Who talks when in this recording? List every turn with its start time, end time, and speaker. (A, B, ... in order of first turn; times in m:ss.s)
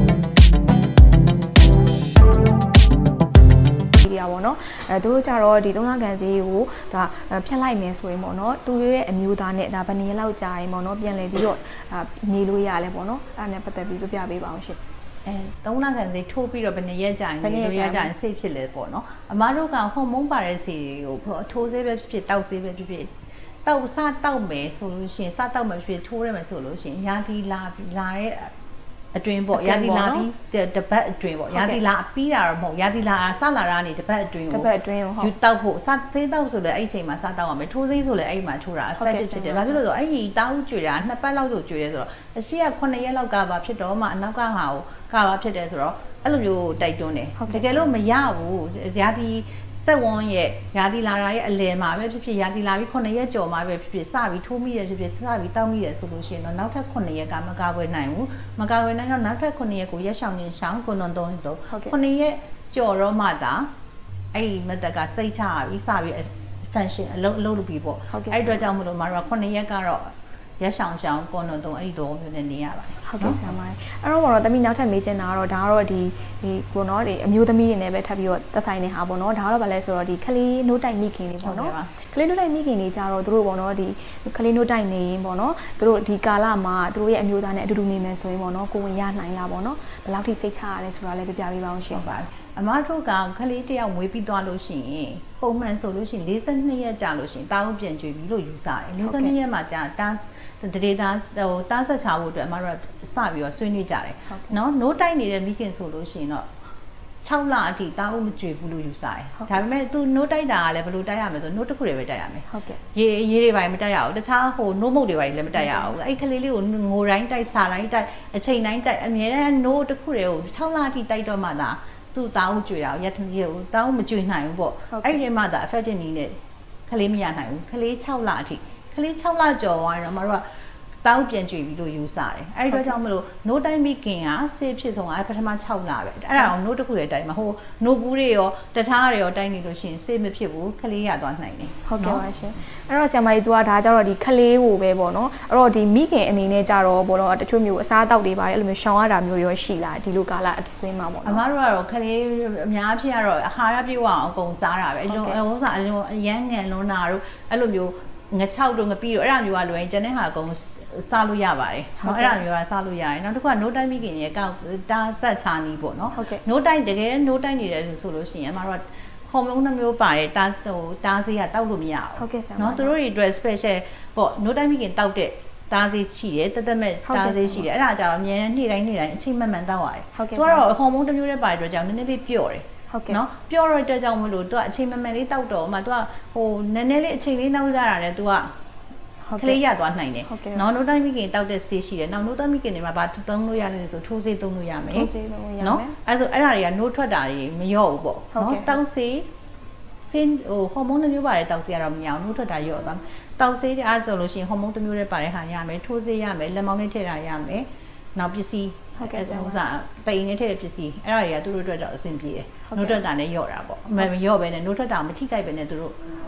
0:04.0-0:14.8 A
0:15.2-0:23.1 B
0:17.4-0:18.1 A
0:23.6-0:28.5 B
0:29.1-0:34.7 B
0:29.5-0:30.3 A
0:31.5-0:31.8 A
0:34.5-0:35.3 A
0:35.2-1:03.7 B
0:39.0-0:39.8 A
0:47.4-0:47.8 A
1:01.7-1:01.9 A
1:04.3-1:13.4 B
1:08.1-1:08.6 A
1:13.0-1:32.0 A
1:21.4-1:21.9 B
1:31.9-1:46.5 B
1:39.0-1:39.3 A
1:44.3-1:44.6 A
1:47.2-2:06.4 B
1:52.5-1:52.8 A
1:55.6-1:55.9 A
2:04.9-2:05.2 A
2:06.9-2:10.4 B
2:11.0-2:22.2 B
2:12.7-2:13.0 A
2:21.8-2:31.4 A
2:31.2-3:08.5 B
2:35.1-2:35.4 A
2:42.0-2:42.4 A
2:46.1-2:46.4 A
2:52.2-2:52.9 A
2:57.0-2:57.6 A
3:00.1-3:00.6 A
3:02.9-3:03.2 A
3:09.3-3:09.6 A
3:09.4-3:19.3 B
3:10.3-3:10.6 A
3:14.9-3:16.0 A
3:18.3-3:18.8 A
3:20.0-3:35.9 B
3:29.0-3:29.6 A
3:32.6-3:33.0 A